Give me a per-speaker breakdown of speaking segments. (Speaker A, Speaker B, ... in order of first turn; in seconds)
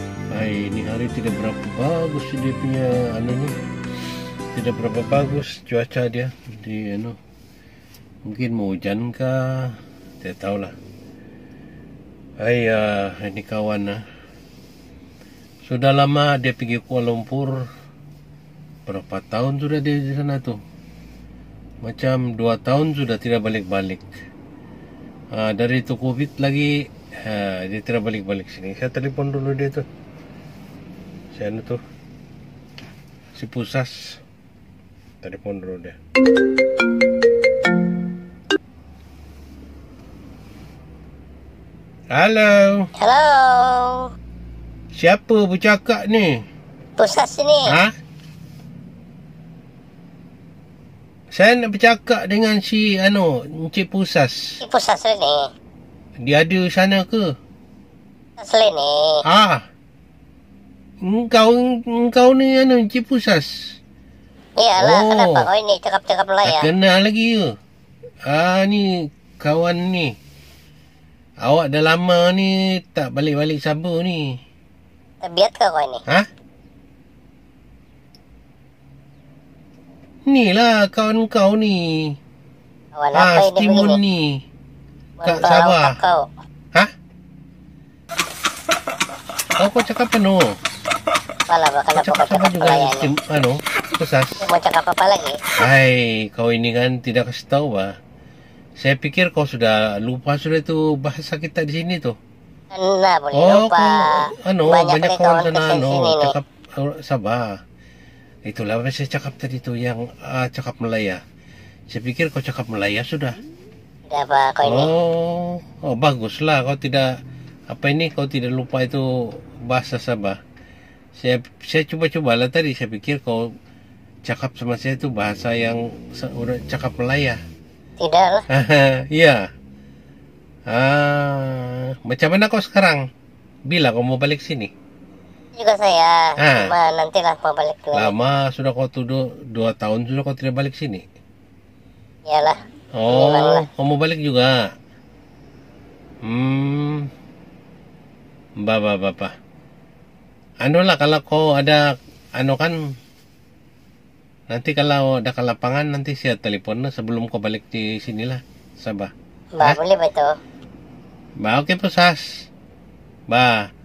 Speaker A: 0.3-3.5, 4.5-7.2, 8.3-10.7, 12.4-14.0, 15.7-17.6, 18.9-20.6, 21.8-24.1, 25.4-26.7, 27.2-29.8, 31.3-31.8, 33.3-34.2, 35.2-35.9, 42.1-42.9, 45.0-46.4, 47.7-47.9, 51.3-54.6, 56.2-57.2, 59.2-59.6, 61.0-63.5, 64.8-65.5, 66.5-67.5, 68.3-68.9, 69.4-70.1, 71.4-74.2, 80.3-81.8, 83.1-84.2, 85.2-85.9, 89.6-90.4, 92.0-94.5, 95.6-97.9, 98.8-102.1, 103.3-107.5, 108.5-111.2, 111.9-113.3, 114.6-117.0, 117.7-119.0, 119.7-120.4, 121.2-123.4, 124.3-127.4, 128.5-129.4, 130.7-133.0, 133.7-134.7, 136.4-136.7, 137.9-141.0, 143.0-144.5, 146.2-147.0, 148.6-149.3, 150.6-151.8, 152.4-152.7, 154.5-159.8, 161.4-162.2, 163.3-163.6
Speaker B: 43.0-44.1, 47.0-47.6, 54.6-55.5, 58.4-59.2, 64.6-66.7, 75.2-76.0, 83.0-84.0, 85.2-86.2, 91.5-93.1, 94.4-95.4, 102.7-104.0, 104.7-106.3, 114.1-114.9, 128.0-128.4, 135.6-138.1, 142.3-142.6, 143.1-143.7, 159.6-160.3